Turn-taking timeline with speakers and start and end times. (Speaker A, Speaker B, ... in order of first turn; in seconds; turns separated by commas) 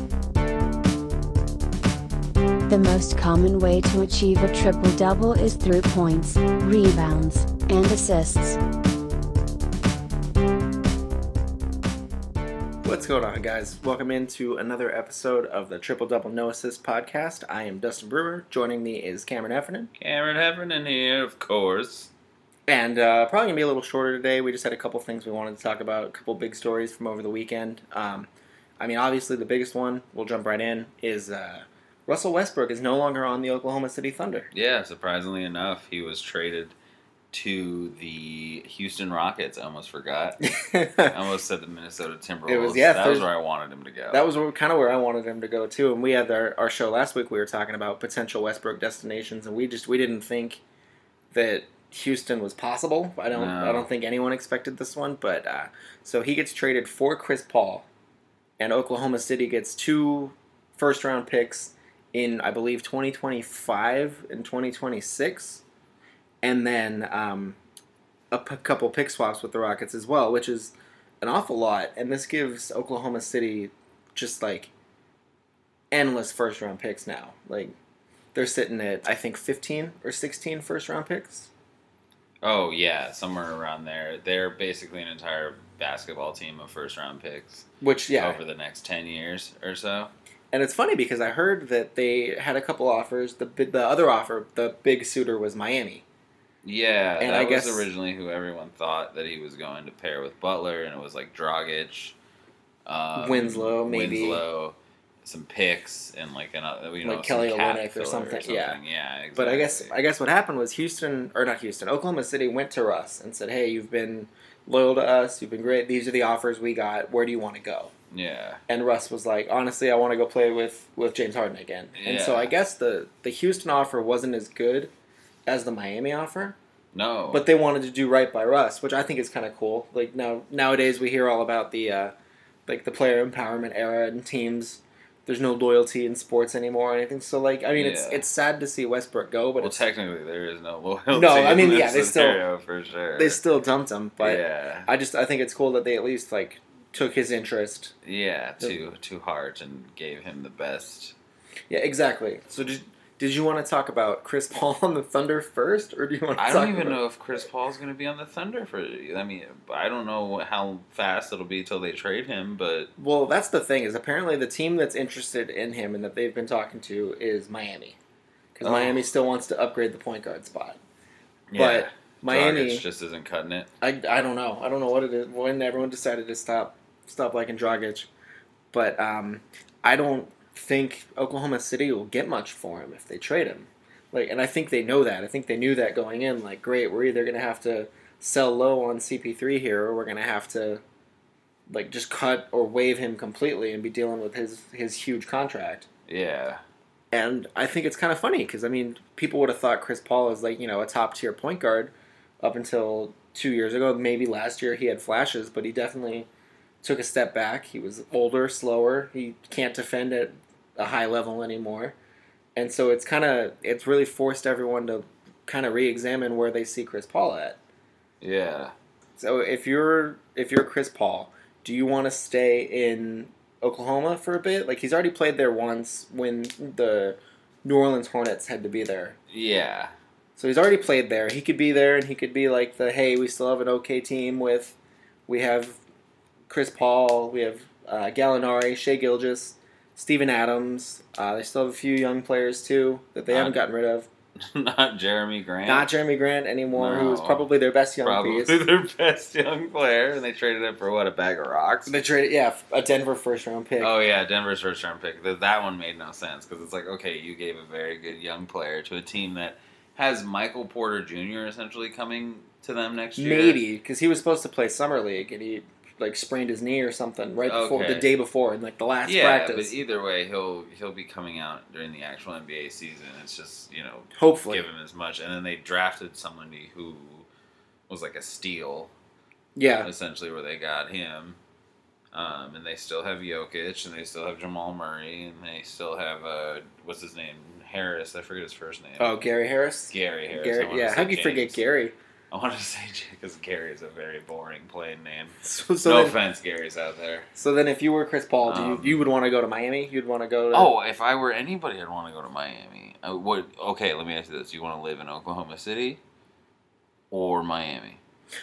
Speaker A: 2.7-8.6, Speaker B: 12.8-19.9, Speaker C: 20.0-22.1, Speaker B: 22.7-28.3, Speaker B: 28.8-34.5, Speaker C: 34.5-36.8, Speaker C: 37.3-40.4, Speaker B: 40.4-41.2, Speaker C: 41.1-44.3, Speaker B: 42.5-43.3, Speaker B: 44.1-50.6, Speaker B: 51.3-57.9, Speaker C: 53.3-53.9, Speaker B: 58.6-65.6, Speaker B: 66.4-67.6, Speaker B: 68.3-74.7, Speaker B: 75.9-77.8, Speaker B: 78.3-81.5, Speaker C: 82.4-90.1, Speaker B: 87.8-88.4, Speaker B: 90.5-96.0, Speaker C: 96.6-102.2, Speaker B: 97.2-97.9, Speaker C: 102.9-110.0, Speaker B: 103.2-104.4, Speaker B: 107.0-108.8, Speaker B: 109.4-117.9, Speaker C: 118.1-118.6, Speaker B: 118.7-124.9, Speaker C: 122.0-122.5, Speaker B: 125.5-126.6, Speaker C: 126.9-127.5, Speaker B: 127.3-132.1, Speaker B: 132.7-139.8, Speaker C: 137.8-138.3, Speaker C: 139.6-143.4, Speaker B: 141.1-142.4, Speaker B: 143.2-147.9, Speaker C: 144.2-144.9, Speaker C: 148.0-151.2, Speaker B: 151.7-157.0, Speaker C: 156.4-162.9, Speaker B: 163.0-168.0, Speaker B: 168.6-170.8, Speaker C: 168.6-169.1, Speaker C: 171.5-173.7, Speaker B: 171.5-172.8, Speaker B: 173.8-178.1, Speaker B: 178.7-190.8, Speaker B: 191.7-195.9, Speaker C: 196.1-196.6, Speaker B: 197.1-206.3, Speaker B: 206.8-211.9, Speaker B: 212.6-217.6, Speaker C: 218.2-218.7, Speaker B: 219.2-229.2, Speaker C: 229.3-229.9, Speaker B: 230.4-235.8, Speaker B: 236.5-244.1, Speaker C: 243.3-243.6, Speaker C: 244.4-245.9, Speaker B: 245.7-248.5, Speaker C: 246.7-247.5, Speaker C: 248.0-251.9, Speaker B: 251.9-253.9, Speaker C: 253.8-263.6, Speaker B: 263.2-269.8, Speaker C: 267.4-268.1, Speaker C: 269.1-277.3, Speaker B: 274.1-274.6, Speaker C: 277.9-278.9, Speaker B: 279.6-279.9, Speaker C: 279.8-281.4, Speaker C: 282.1-289.2, Speaker B: 289.0-291.9, Speaker C: 289.9-291.6, Speaker C: 292.3-297.3, Speaker B: 295.4-296.2, Speaker B: 297.4-300.7, Speaker C: 298.4-299.0, Speaker C: 300.5-306.0, Speaker C: 307.1-308.0